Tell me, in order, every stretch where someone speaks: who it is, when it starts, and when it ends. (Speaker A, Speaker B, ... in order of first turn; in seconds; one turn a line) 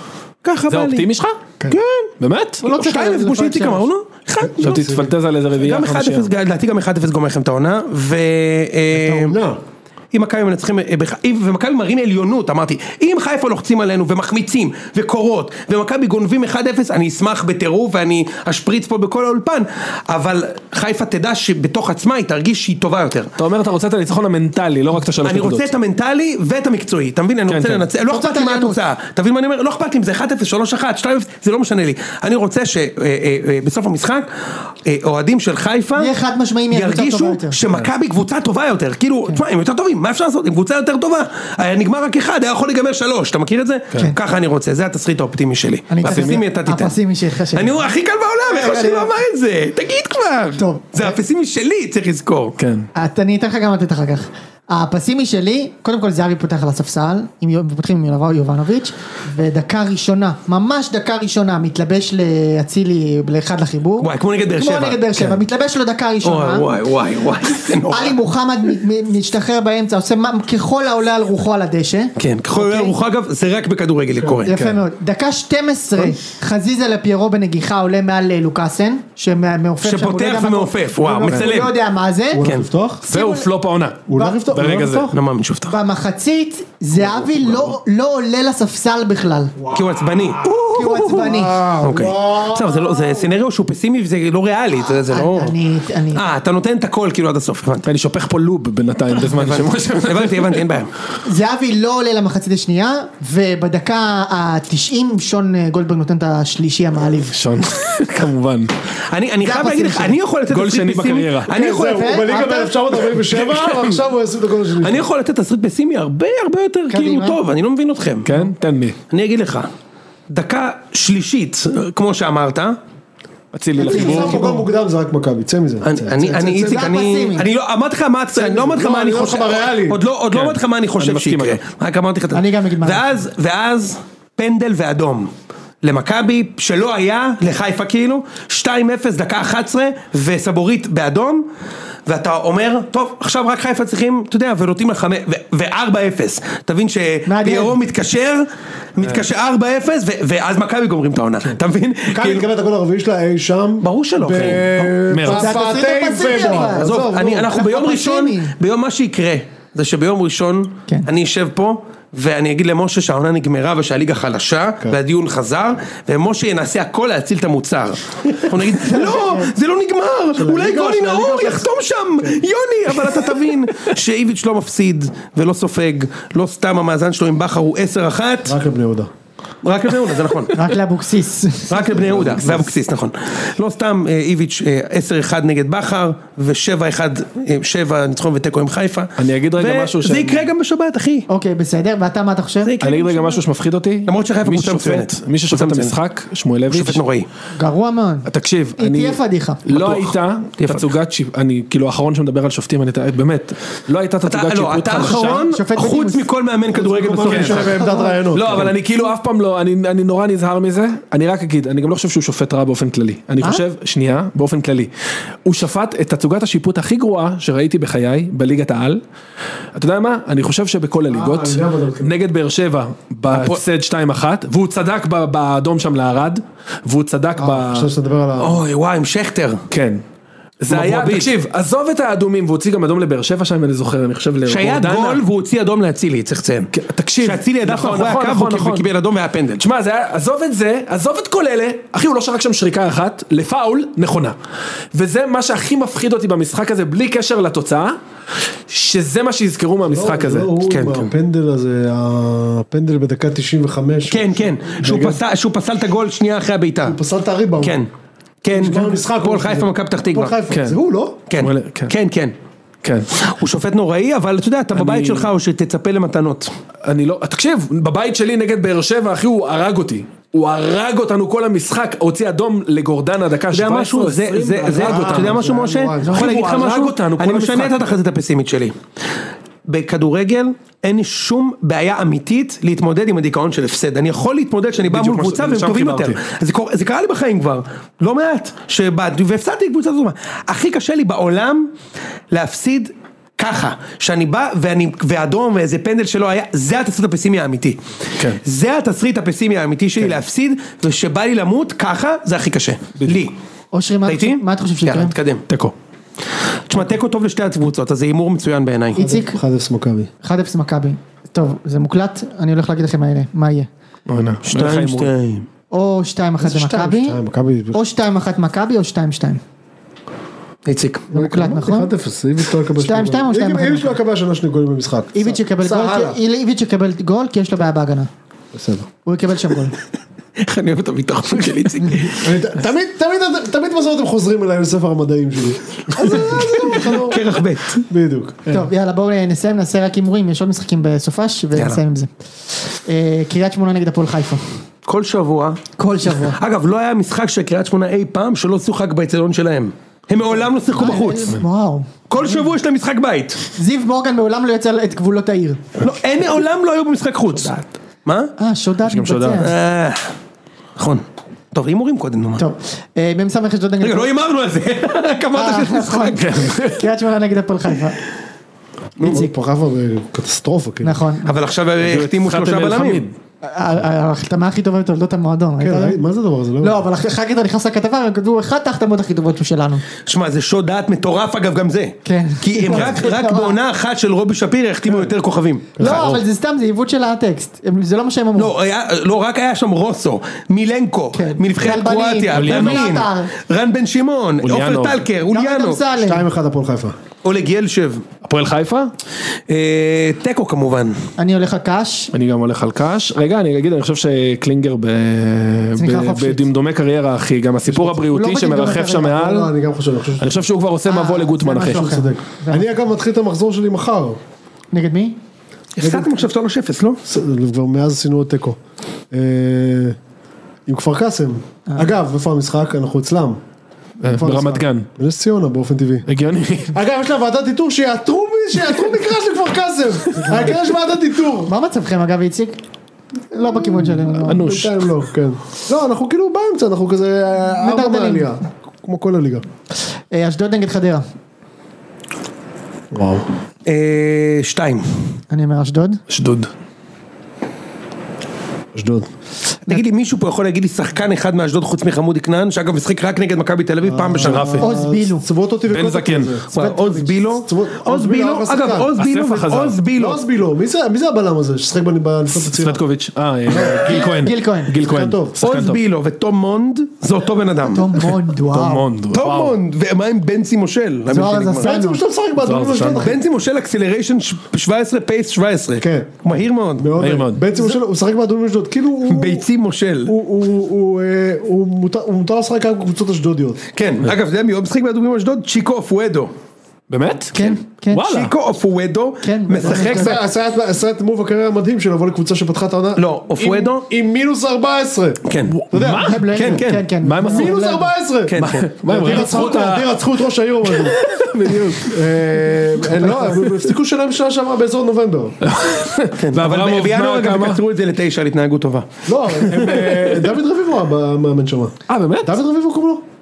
Speaker A: 0.4-1.1
Speaker B: 0.7-1.4
Speaker A: 1.7-2.1
Speaker B: 2.2-2.6
Speaker C: 2.6-3.9
Speaker A: 2.6-4.9
Speaker D: 4.4-5.1
Speaker B: 4.6-6.3
Speaker A: 5.6-9.4
Speaker D: 8.9-9.6
Speaker A: 10.1-23.3
Speaker B: 23.4-25.7
Speaker A: 25.2-34.3
Speaker B: 27.5-27.8
Speaker C: 28.1-28.8
Speaker A: 34.8-36.1
Speaker C: 36.0-37.6
Speaker A: 36.7-47.0
Speaker C: 45.9-47.8
Speaker B: 46.0-46.4
Speaker A: 47.5-52.6
Speaker C: 48.5-49.1
Speaker C: 50.6-51.1
Speaker B: 52.6-52.9
Speaker C: 52.9-66.7
Speaker A: 64.0-65.4
Speaker A: 66.2-68.2
Speaker C: 67.9-72.9
Speaker A: 72.2-74.5
Speaker D: 74.2-74.7
Speaker C: 74.5-82.4
Speaker A: 79.8-81.8
Speaker D: 82.3-83.0
Speaker A: 82.4-82.7
Speaker C: 83.0-83.5
Speaker B: 83.1-85.1
Speaker D: 84.1-85.2
Speaker C: 84.1-84.4
Speaker A: 85.1-85.8
Speaker C: 85.7-89.5
Speaker D: 87.0-87.6
Speaker D: 89.6-93.3
Speaker A: 89.7-95.5
Speaker C: 90.6-91.6
Speaker C: 94.8-96.2
Speaker A: 96.1-97.8
Speaker B: 97.8-100.6
Speaker A: 99.2-100.9
Speaker C: 101.2-107.3
Speaker B: 107.3-108.7
Speaker A: 109.1-112.1
Speaker C: 109.4-110.2
Speaker B: 110.5-111.5
Speaker D: 111.5-115.1
Speaker C: 111.5-112.8
Speaker A: 114.8-118.3
Speaker C: 116.9-117.4
Speaker B: 118.2-119.0
Speaker A: 119.1-119.7
Speaker A: 120.3-122.8
Speaker B: 123.5-124.5
Speaker D: 123.8-127.0
Speaker C: 123.8-124.6
Speaker A: 125.8-135.3
Speaker C: 126.6-127.5
Speaker D: 128.3-130.0
Speaker B: 130.3-131.6
Speaker C: 132.3-133.1
Speaker A: 135.8-141.5
Speaker A: 142.1-152.5
Speaker C: 147.3-147.8
Speaker D: 152.1-157.5
Speaker A: 153.8-154.9
Speaker B: 155.1-155.6
Speaker C: 155.3-158.5
Speaker A: 156.4-178.6
Speaker C: 168.7-169.5
Speaker D: 170.3-172.4
Speaker D: 178.4-179.1
Speaker A: 179.6-180.6
Speaker C: 180.5-182.0
Speaker A: 181.7-191.3
Speaker D: 182.2-182.5
Speaker B: 189.2-190.5
Speaker C: 191.3-192.7
Speaker A: 192.6-193.4
Speaker B: 192.8-197.0
Speaker A: 194.1-195.9
Speaker A: 196.7-197.3
Speaker C: 197.6-198.3
Speaker B: 198.2-205.4
Speaker C: 198.8-199.6
Speaker A: 199.7-200.9
Speaker A: 204.2-207.8
Speaker C: 205.0-206.2
Speaker D: 206.7-208.7
Speaker C: 206.8-208.3
Speaker B: 207.3-207.6
Speaker B: 208.3-214.9
Speaker B: 215.4-219.0
Speaker B: 219.7-227.9
Speaker D: 221.1-222.1
Speaker A: 223.3-223.6
Speaker D: 227.4-228.6
Speaker A: 228.4-229.6
Speaker B: 229.7-230.0
Speaker B: 230.6-235.2
Speaker A: 230.7-231.3
Speaker A: 234.5-236.7
Speaker B: 236.7-238.8
Speaker A: 237.2-239.6
Speaker B: 239.6-244.3
Speaker B: 244.9-247.9
Speaker B: 248.7-250.5
Speaker D: 249.9-255.2
Speaker A: 250.7-251.1
Speaker A: 254.1-257.0
Speaker D: 256.8-257.8
Speaker A: 257.6-257.9
Speaker A: 258.4-260.3
Speaker D: 258.5-261.2
Speaker B: 260.5-260.8
Speaker A: 261.3-262.3
Speaker B: 261.4-261.9
Speaker A: 263.1-266.5
Speaker B: 264.7-265.3
Speaker B: 266.9-275.5
Speaker A: 273.5-278.7
Speaker D: 274.7-276.3
Speaker B: 276.0-278.0
Speaker A: 279.7-291.7
Speaker B: 284.9-286.2
Speaker A: 292.3-297.8
Speaker A: 298.4-303.3
Speaker C: 303.7-305.1
Speaker A: 304.0-305.4
Speaker B: 305.5-305.7
Speaker A: 306.7-309.0
Speaker C: 308.9-309.4
Speaker D: 308.9-310.1
Speaker C: 310.2-313.7
Speaker B: 314.1-315.1
Speaker A: 314.4-315.4
Speaker C: 315.7-317.2
Speaker D: 316.4-317.8
Speaker C: 317.7-319.4
Speaker A: 320.7-321.1
Speaker C: 321.1-321.9
Speaker D: 321.1-326.2
Speaker C: 322.8-323.9
Speaker C: 325.1-328.1
Speaker D: 328.5-328.9
Speaker C: 329.0-329.8
Speaker A: 330.4-332.4
Speaker D: 332.1-337.2
Speaker A: 336.0-337.8
Speaker D: 337.9-338.7
Speaker C: 338.5-342.1
Speaker A: 341.5-341.8
Speaker C: 342.8-344.4
Speaker A: 344.8-351.4
Speaker C: 345.8-346.4
Speaker C: 350.7-352.4
Speaker A: 352.1-353.4
Speaker C: 353.6-355.8
Speaker A: 355.8-358.3
Speaker C: 358.4-359.5
Speaker B: 358.9-359.5
Speaker A: 359.4-360.1
Speaker A: 360.8-362.4
Speaker C: 362.4-364.1
Speaker A: 363.8-366.4
Speaker C: 365.3-368.0
Speaker B: 366.1-366.8
Speaker D: 369.0-371.0
Speaker C: 369.0-369.3
Speaker C: 370.8-371.3
Speaker A: 371.2-373.0
Speaker B: 371.8-373.1
Speaker C: 373.4-376.0
Speaker D: 375.6-376.8
Speaker C: 376.6-379.8
Speaker A: 380.1-386.1
Speaker C: 382.1-383.5
Speaker D: 385.8-386.2
Speaker C: 385.8-388.5
Speaker A: 388.3-395.8
Speaker C: 391.1-393.3
Speaker B: 392.3-392.9
Speaker B: 394.4-395.0
Speaker C: 395.3-396.2
Speaker D: 395.9-397.0
Speaker A: 397.2-398.0
Speaker B: 398.2-398.9
Speaker A: 399.5-401.0
Speaker C: 401.2-402.1
Speaker B: 402.1-409.5
Speaker C: 405.8-406.4
Speaker D: 407.7-408.0
Speaker C: 408.0-409.2
Speaker D: 408.9-410.5
Speaker B: 410.2-411.9
Speaker C: 410.9-412.7
Speaker D: 411.6-414.2
Speaker C: 414.7-415.2
Speaker A: 415.8-417.0
Speaker D: 415.8-416.2
Speaker D: 417.0-418.6
Speaker D: 419.1-420.0
Speaker D: 420.7-423.4
Speaker B: 424.0-424.9
Speaker D: 424.0-426.1
Speaker B: 426.1-426.7
Speaker D: 426.7-431.5
Speaker C: 430.1-430.6
Speaker C: 431.4-432.6
Speaker D: 433.3-439.4
Speaker C: 433.3-434.5
Speaker B: 434.1-434.9
Speaker C: 437.5-438.3
Speaker C: 440.1-441.0
Speaker D: 442.9-443.2
Speaker A: 443.6-444.9
Speaker C: 445.3-446.0
Speaker B: 446.1-446.5
Speaker D: 448.7-449.1
Speaker A: 449.7-454.6
Speaker D: 453.8-456.5
Speaker B: 454.2-454.7
Speaker C: 454.6-455.2
Speaker B: 455.7-456.4
Speaker A: 456.5-460.2
Speaker C: 456.6-457.2
Speaker D: 457.4-458.9
Speaker B: 459.0-459.8
Speaker D: 459.9-462.8
Speaker B: 462.3-465.8
Speaker D: 463.5-464.1
Speaker C: 463.6-464.7
Speaker D: 464.7-465.4
Speaker A: 465.4-468.1
Speaker C: 467.6-468.8
Speaker B: 468.4-469.6
Speaker A: 469.1-471.7
Speaker C: 471.1-472.0
Speaker D: 471.6-473.2
Speaker B: 472.4-473.1
Speaker A: 472.9-476.9
Speaker D: 475.8-476.2
Speaker D: 476.8-479.4
Speaker B: 477.0-477.4
Speaker A: 479.1-480.1
Speaker D: 480.1-483.6
Speaker A: 483.7-486.3
Speaker B: 486.9-488.3
Speaker C: 487.3-488.1
Speaker A: 488.0-490.2
Speaker C: 489.2-490.2
Speaker D: 489.6-496.2
Speaker A: 493.0-493.8
Speaker A: 495.2-495.5
Speaker B: 495.5-497.6
Speaker C: 495.9-497.9
Speaker A: 496.3-496.9
Speaker D: 497.2-505.4
Speaker A: 498.3-499.7
Speaker B: 498.4-499.9
Speaker B: 500.9-502.0
Speaker B: 503.0-503.5
Speaker B: 505.4-507.6
Speaker A: 506.2-508.9
Speaker D: 509.1-513.0
Speaker A: 509.4-509.8
Speaker B: 511.9-512.4